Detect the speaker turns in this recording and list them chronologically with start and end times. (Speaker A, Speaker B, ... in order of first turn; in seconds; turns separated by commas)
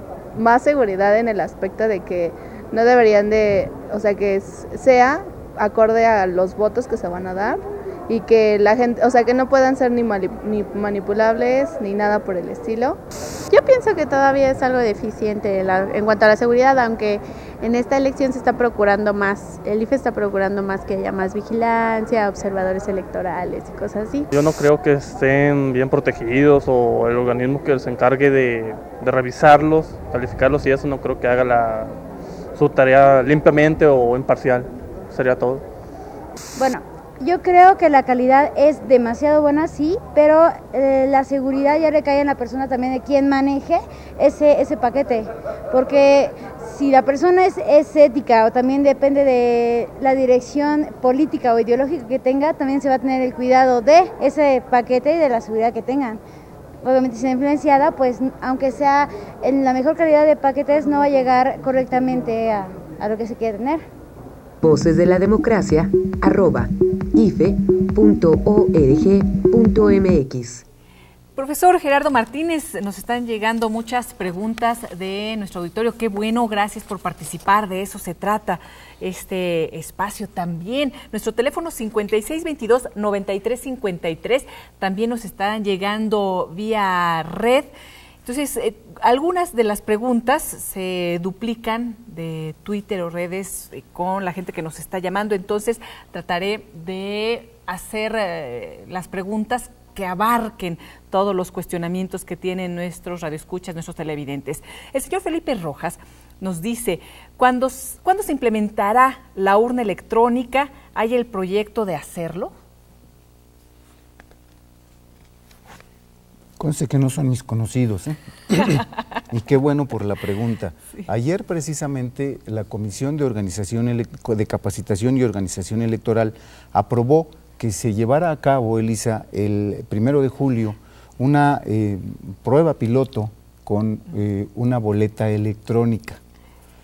Speaker A: 0.3-13.0, Speaker B: 13.5-24.3, Speaker C: 24.3-31.9, Speaker C: 32.5-35.6, Speaker D: 36.6-56.2, Speaker D: 56.8-63.9, Speaker E: 64.6-70.6, Speaker F: 71.3-87.7, Speaker F: 88.2-112.5, Speaker G: 116.6-136.2